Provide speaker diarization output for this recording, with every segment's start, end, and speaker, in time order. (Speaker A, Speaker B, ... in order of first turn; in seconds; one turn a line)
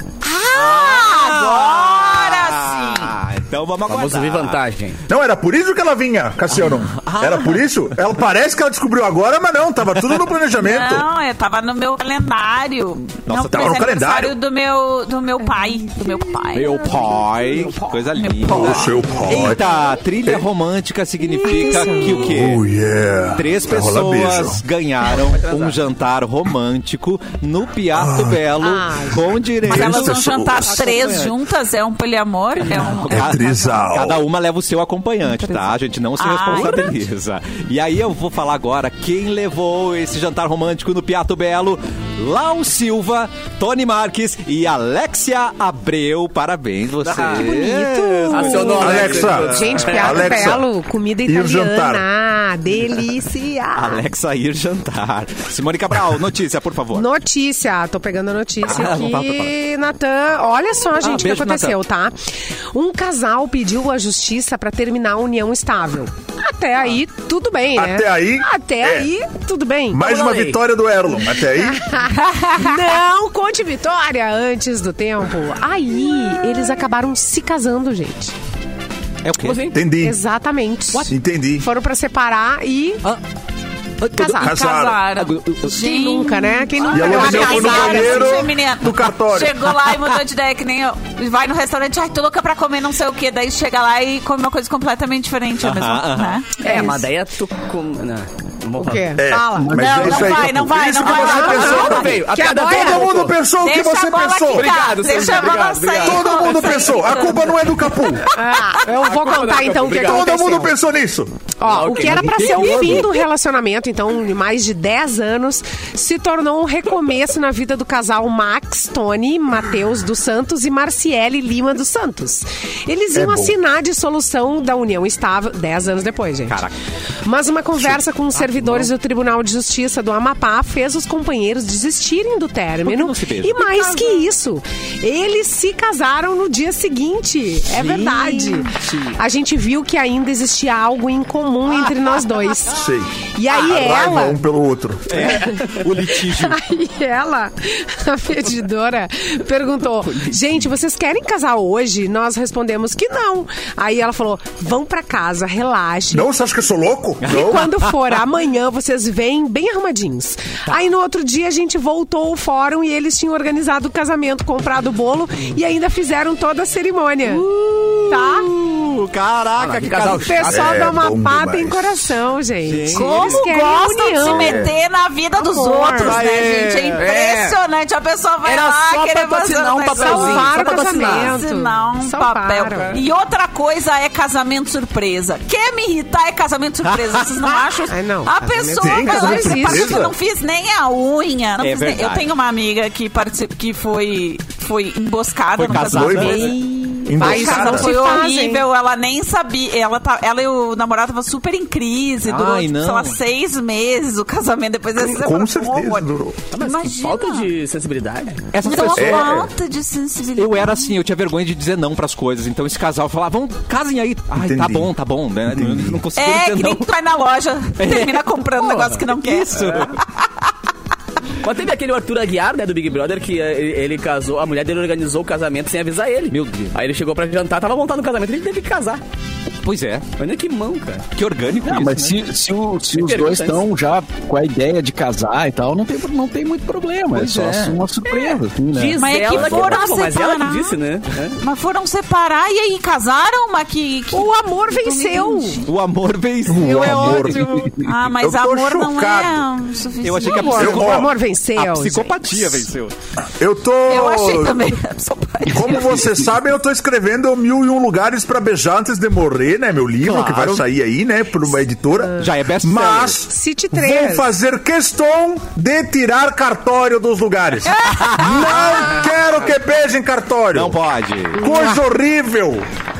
Speaker A: 0.2-3.1
Speaker B: 0.5-4.6
Speaker C: 3.9-5.0
Speaker D: 5.1-11.1
Speaker B: 6.5-7.9
Speaker A: 10.6-17.0
Speaker B: 13.3-13.9
Speaker D: 13.5-14.4
Speaker B: 16.5-22.6
Speaker A: 18.2-19.0
Speaker D: 18.5-19.6
Speaker E: 21.4-22.1
Speaker A: 21.5-22.1
Speaker D: 22.1-24.6
Speaker B: 23.3-31.4
Speaker C: 25.3-25.8
Speaker D: 27.9-28.4
Speaker E: 28.6-29.2
Speaker D: 29.7-30.9
Speaker A: 29.7-33.4
Speaker B: 32.6-50.0
Speaker D: 33.1-34.2
Speaker A: 35.2-37.0
Speaker C: 47.0-47.5
Speaker E: 47.2-54.0
Speaker C: 48.3-50.4
Speaker D: 48.8-50.7
Speaker D: 51.3-52.0
Speaker B: 53.7-57.1
Speaker E: 56.9-62.2
Speaker B: 58.6-59.5
Speaker B: 61.0-61.8
Speaker E: 62.7-70.1
Speaker D: 67.8-69.1
Speaker D: 69.9-71.8
Speaker C: 70.0-70.6
Speaker E: 71.6-78.3
Speaker B: 79.2-79.8
Speaker C: 79.4-79.8
Speaker D: 79.7-80.2
Speaker E: 80.0-83.0
Speaker D: 81.1-81.7
Speaker B: 84.0-84.5
Speaker E: 84.2-84.5
Speaker A: 84.4-96.6
Speaker D: 84.4-85.0
Speaker B: 85.2-85.6
Speaker E: 85.7-88.5
Speaker D: 86.9-89.6
Speaker B: 95.6-96.4
Speaker C: 96.6-99.2
Speaker E: 96.6-97.1
Speaker E: 98.8-100.1
Speaker D: 99.2-104.7
Speaker F: 99.6-100.3
Speaker A: 99.8-102.2
Speaker E: 101.1-103.2
Speaker C: 101.3-103.4
Speaker A: 103.6-108.2
Speaker C: 104.5-107.3
Speaker D: 106.0-108.3
Speaker E: 108.3-110.7
Speaker C: 108.9-110.3
Speaker D: 110.0-111.3
Speaker E: 111.6-126.6
Speaker C: 111.7-113.0
Speaker F: 112.0-113.0
Speaker D: 123.2-123.5
Speaker B: 126.5-126.7
Speaker E: 127.2-144.4
Speaker B: 128.3-128.9
Speaker B: 132.8-134.2
Speaker B: 137.7-139.2
Speaker D: 142.8-145.2
Speaker B: 145.1-146.6
Speaker E: 145.2-156.3
Speaker D: 156.1-157.7
Speaker B: 157.2-157.9
Speaker E: 157.3-167.5
Speaker B: 167.2-170.7
Speaker E: 168.1-168.5
Speaker C: 169.6-170.5
Speaker E: 170.2-174.7
Speaker D: 170.5-171.9
Speaker B: 172.7-173.5
Speaker A: 172.9-207.5
Speaker D: 174.3-174.7
Speaker E: 175.4-176.2
Speaker B: 176.0-177.0
Speaker C: 177.0-177.6
Speaker C: 178.4-181.4
Speaker E: 180.0-183.0
Speaker B: 186.8-187.5
Speaker E: 187.9-190.1
Speaker D: 188.8-190.2
Speaker B: 191.6-192.3
Speaker B: 195.6-196.6
Speaker D: 195.7-196.6
Speaker E: 196.4-198.7
Speaker D: 197.1-198.1
Speaker B: 202.2-203.2
Speaker D: 205.0-206.4
Speaker C: 206.5-208.9
Speaker B: 208.5-209.5
Speaker A: 208.6-210.9
Speaker D: 209.0-209.4
Speaker B: 210.4-216.9
Speaker D: 214.4-214.9
Speaker D: 215.5-216.0
Speaker A: 216.1-220.0
Speaker B: 217.8-220.0
Speaker C: 219.6-219.9
Speaker C: 221.4-229.0
Speaker B: 226.3-226.8
Speaker B: 229.6-230.1
Speaker C: 230.2-231.1
Speaker B: 231.2-232.2
Speaker F: 231.7-239.0
Speaker C: 232.9-233.6
Speaker B: 237.1-237.8
Speaker C: 238.7-241.4
Speaker A: 239.0-240.8
Speaker B: 239.4-239.7
Speaker A: 241.4-245.7
Speaker E: 244.1-245.6
Speaker B: 245.7-247.7
Speaker D: 246.5-249.5
Speaker E: 246.6-247.7
Speaker A: 247.8-250.8
Speaker B: 250.0-252.9
Speaker E: 250.2-252.5
Speaker D: 250.6-251.1
Speaker D: 253.4-254.8
Speaker A: 253.9-256.0
Speaker D: 255.5-270.8
Speaker B: 260.0-260.7
Speaker E: 261.9-262.3
Speaker B: 262.2-263.2
Speaker E: 263.3-264.3
Speaker B: 267.9-268.8
Speaker B: 270.5-271.5
Speaker D: 271.4-272.7
Speaker E: 271.4-271.8